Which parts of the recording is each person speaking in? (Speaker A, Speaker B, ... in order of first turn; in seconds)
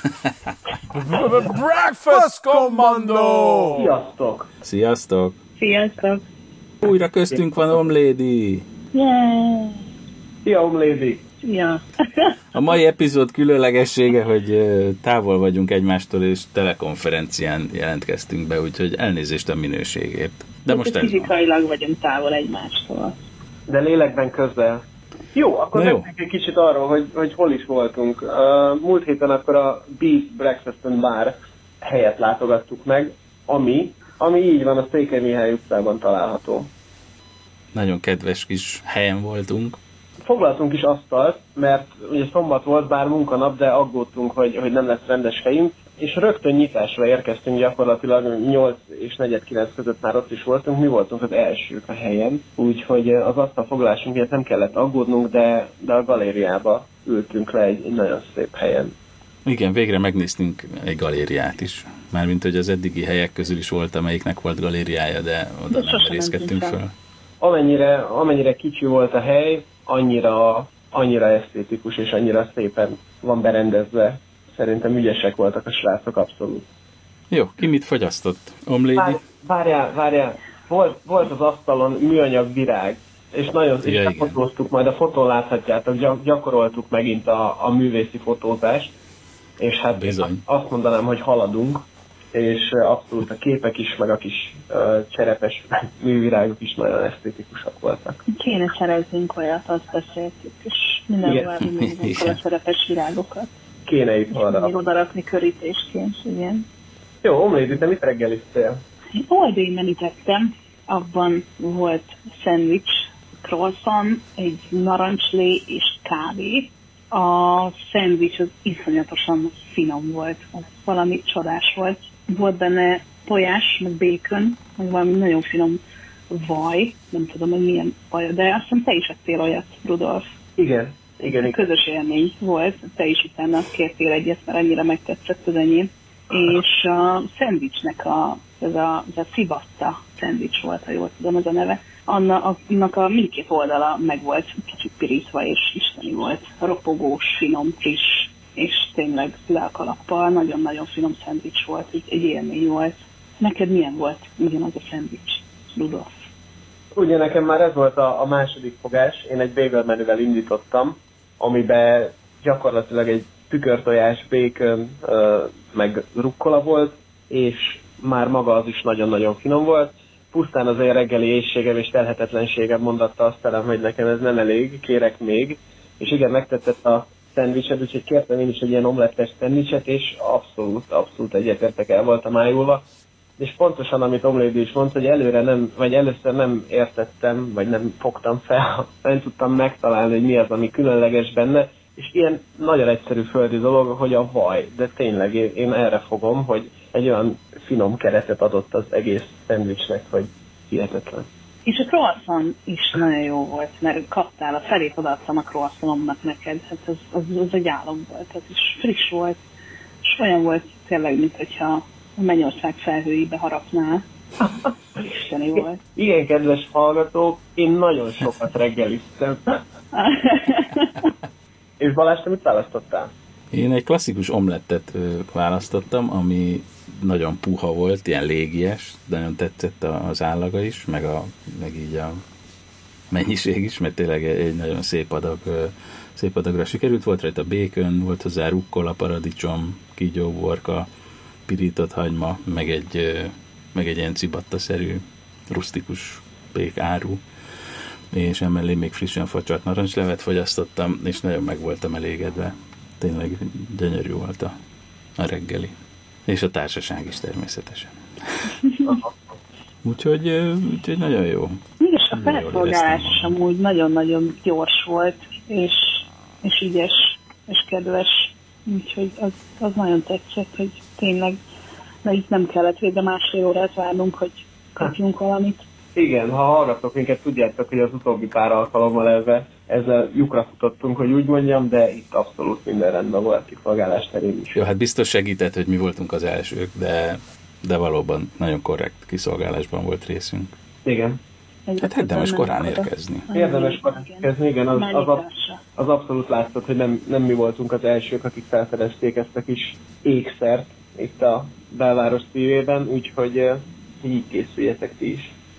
Speaker A: 0.9-3.9
Speaker B: 3.7-4.5, 10.4-11.2, 23.7-24.8, 25.3-36.7, 40.2-58.9, 67.4-76.7, 79.0-88.9, 89.6-98.2, 103.8-104.7, 107.2-108.8, 130.6-131.7, 156.9-182.8, 183.4-201.3, 214.4-215.0, 215.6-219.4, 221.8-223.1, 275.9-284.6, 290.8-291.2, 293.3-295.2, 295.8-305.3
Speaker C: 4.6-5.4, 6.8-8.7, 12.5-21.3, 25.7-26.1, 37.7-39.8, 59.4-66.9, 77.3-79.2, 83.8-84.4, 89.9-90.4, 101.7-102.4, 223.5-232.2, 233.1-240.9, 241.5-247.2, 248.1-254.5, 255.2-255.7, 256.3-257.9, 259.8-261.6, 262.1-263.3, 284.5-290.5, 291.8-293.3
Speaker D: 5.6-6.2, 8.9-9.8, 11.4-12.3, 20.6-23.2, 65.7-66.8, 98.3-103.5, 104.3-106.6, 109.2-112.9, 113.4-130.2, 131.2-156.1, 201.6-209.4, 210.1-214.0, 215.0-215.8, 219.9-221.1, 258.7-259.0, 261.8-271.4, 272.0-275.6, 291.6-295.6